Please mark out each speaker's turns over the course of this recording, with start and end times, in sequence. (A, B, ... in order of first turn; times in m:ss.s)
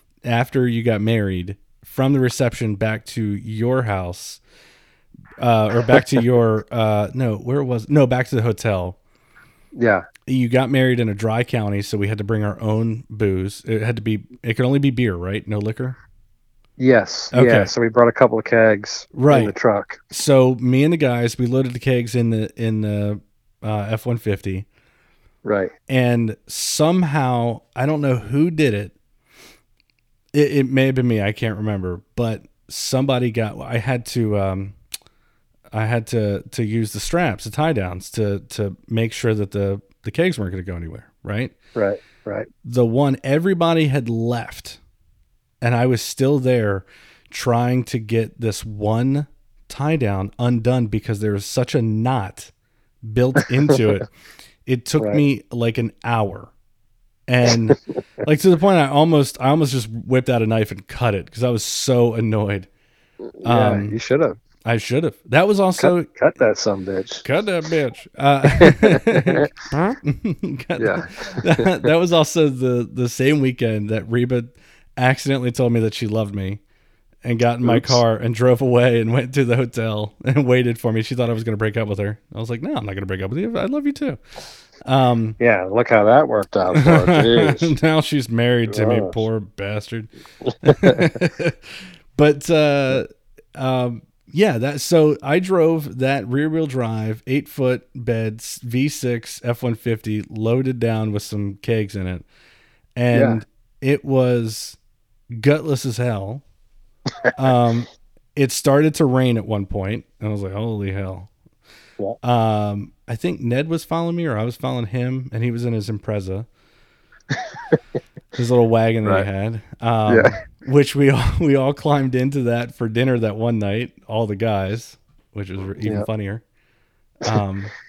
0:00.2-0:04.4 A
0:05.4-0:09.0 A
0:09.8-0:10.0 B
0:10.2-0:16.0 A
0:16.8-0:20.0 B
0:17.3-0:17.7 A
0:19.1-0:19.5 A
0:20.1-0:24.6 A
0:25.4-0:25.7 B
0:25.9-0:28.9 A
0:30.3-0:34.8 A
0:35.7-0:41.5 A
0:41.7-0:42.5 B
0:42.6-0:44.8 A
0:45.6-0:52.5 A
0:53.0-0:54.1 A
0:54.6-0:56.5 A
0:57.3-1:02.7 A
1:03.4-1:04.4 B
1:03.4-1:04.0 A
1:04.6-1:06.1 A
1:05.8-1:07.2 B
1:07.2-1:16.6 A
1:08.6-1:09.5 B
1:10.8-1:11.9 B
1:17.2-1:24.2 A
1:17.6-1:18.0 B
1:24.8-1:25.4 A
1:25.4-1:27.7 B
1:26.7-1:30.1 A
1:28.7-1:29.2 B
1:30.6-1:42.2 A
1:30.7-1:31.0 B
1:43.0-1:44.8 A
1:43.1-1:43.4 B
1:45.3-1:46.4 A
1:47.4-1:51.3 A
1:52.2-1:56.5 A
1:58.4-2:06.4 A
2:00.1-2:00.3 B
2:07.2-2:07.7 A